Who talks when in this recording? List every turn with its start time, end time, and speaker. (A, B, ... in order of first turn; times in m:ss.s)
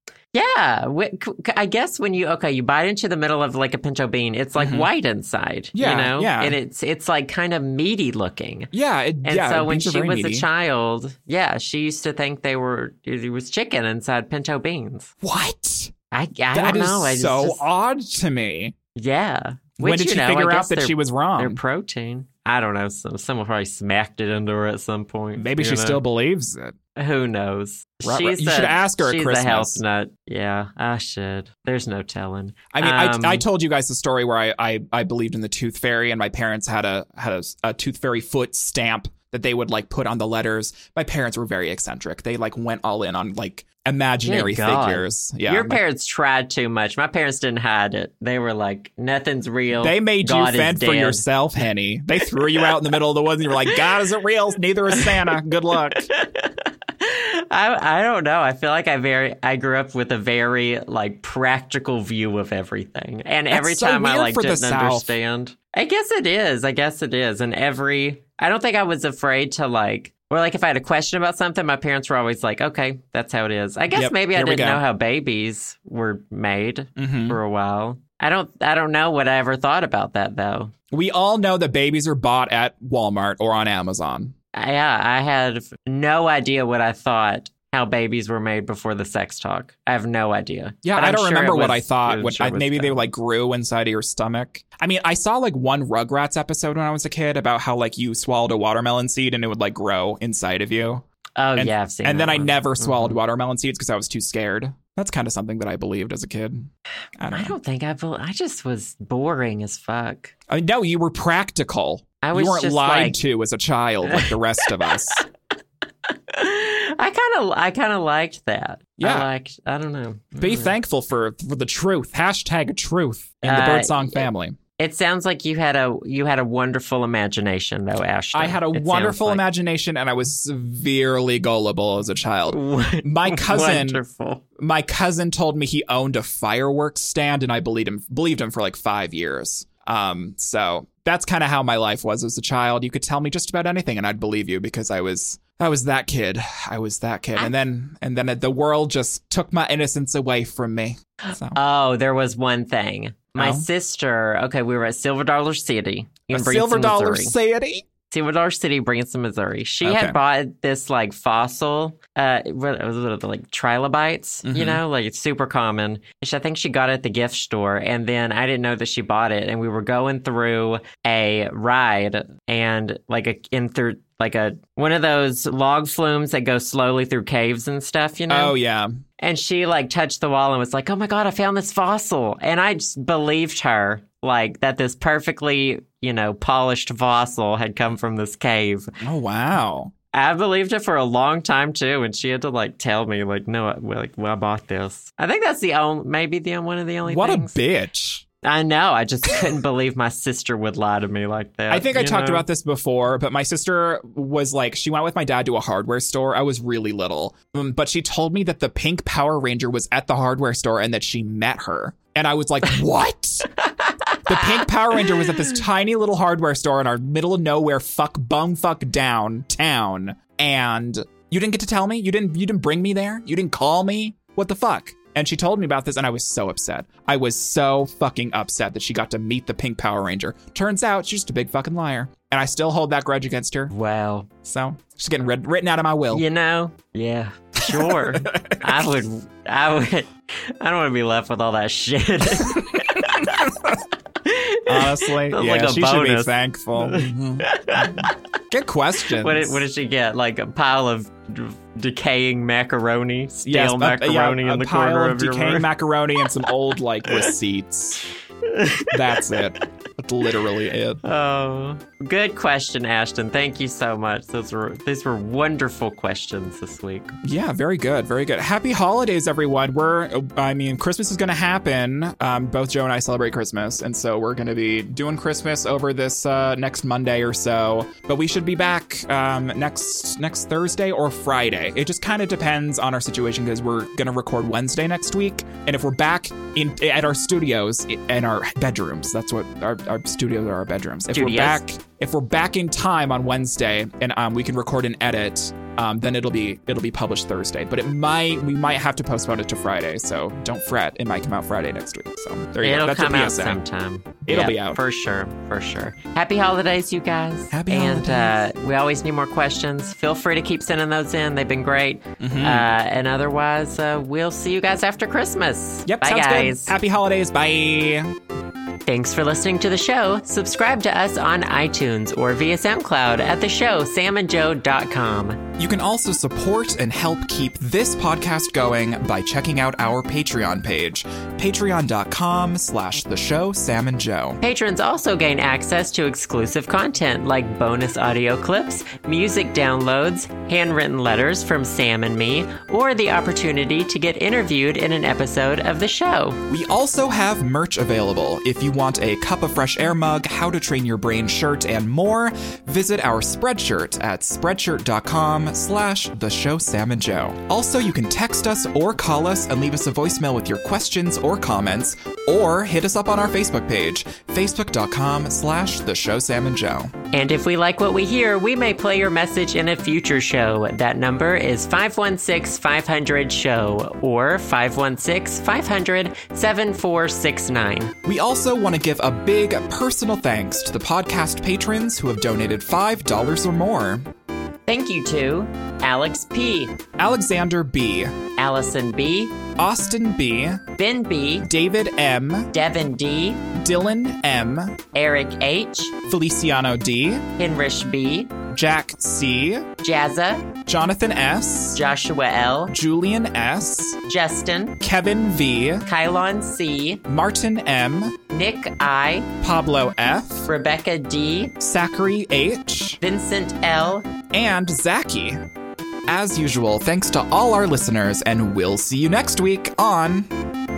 0:00.3-0:08.7 A
0:04.6-0:04.9 B
0:05.8-0:06.6 B
0:08.7-0:10.5 B
0:09.2-0:15.1 A
0:15.2-0:15.9 B
0:16.1-0:17.6 A
0:16.5-0:18.8 B
0:19.0-0:26.0 A
0:19.8-0:21.6 B
0:25.4-0:26.8 B
0:27.0-0:33.4 A
0:28.0-0:29.8 B
0:32.7-0:45.8 B
0:44.2-0:51.2 A
0:49.8-0:56.1 B
0:55.9-1:20.7 A
1:03.5-1:05.2 B
1:13.9-1:14.8 B
1:17.0-1:17.4 B
1:20.9-1:24.3 B
1:24.5-1:33.0 A
1:30.8-1:41.0 B
1:41.4-1:43.2 A
1:41.6-1:47.6 B
1:47.3-1:50.3 A
1:50.5-1:55.2 B
1:52.2-1:53.2 A
1:54.1-1:55.2 A
1:56.1-2:00.7 A
1:59.0-1:59.3 B
2:00.4-2:04.6 B
2:03.4-2:04.3 A
2:04.8-2:09.4 A
2:08.3-2:14.0 B
2:12.5-2:14.4 A
2:14.6-2:31.6 B
2:31.3-2:37.3 A
2:33.4-2:33.7 B
2:36.3-2:37.8 B
2:38.1-2:58.6 A
2:39.8-2:40.2 B
2:44.4-2:44.8 B
2:58.3-2:59.0 B
2:59.2-3:08.9 A
3:09.0-3:09.9 B
3:10.1-3:17.6 A
3:17.0-3:18.2 B
3:18.4-3:22.5 A
3:21.7-3:33.5 B
3:33.6-3:35.6 A
3:34.3-3:53.7 B
3:53.7-3:54.3 A
3:54.4-3:56.2 B
3:56.1-4:03.5 A
3:57.6-3:59.0 B
4:02.4-4:03.8 B
4:04.2-4:08.2 A
4:04.7-4:09.6 B
4:09.2-4:15.7 A
4:13.5-4:18.0 B
4:18.4-4:19.7 A
4:18.9-4:21.0 B
4:21.0-4:27.1 A
4:27.2-5:03.6 B
4:51.1-4:51.6 A
5:02.6-5:16.7 A
5:04.2-5:04.8 B
5:07.5-5:08.4 B
5:12.2-5:12.7 B
5:15.9-5:18.1 B
5:18.9-5:25.5 A
5:25.6-5:34.4 B
5:34.4-5:46.4 A
5:46.5-6:06.9 B
6:07.1-6:17.9 A
6:18.0-6:24.1 B
6:24.7-6:26.8 A
6:27.0-6:28.2 B
6:28.4-6:29.4 A
6:29.6-6:30.6 B
6:30.8-6:31.5 A
6:31.4-6:32.5 B
6:32.5-6:33.5 A
6:33.6-6:34.8 B
6:34.9-6:36.0 A
6:36.1-6:37.3 B
6:37.4-6:38.4 A
6:38.5-6:39.7 B
6:39.8-6:40.5 A
6:40.7-6:41.8 B
6:41.8-6:42.8 A
6:42.7-6:44.0 B
6:44.1-6:44.8 A
6:44.8-6:45.8 B
6:45.8-6:47.0 A
6:47.1-6:48.2 B
6:48.3-6:49.3 A
6:49.4-6:50.5 B
6:50.5-6:51.6 A
6:51.6-6:53.0 B
6:53.0-6:54.1 A
6:54.3-6:55.4 B
6:56.1-7:00.4 B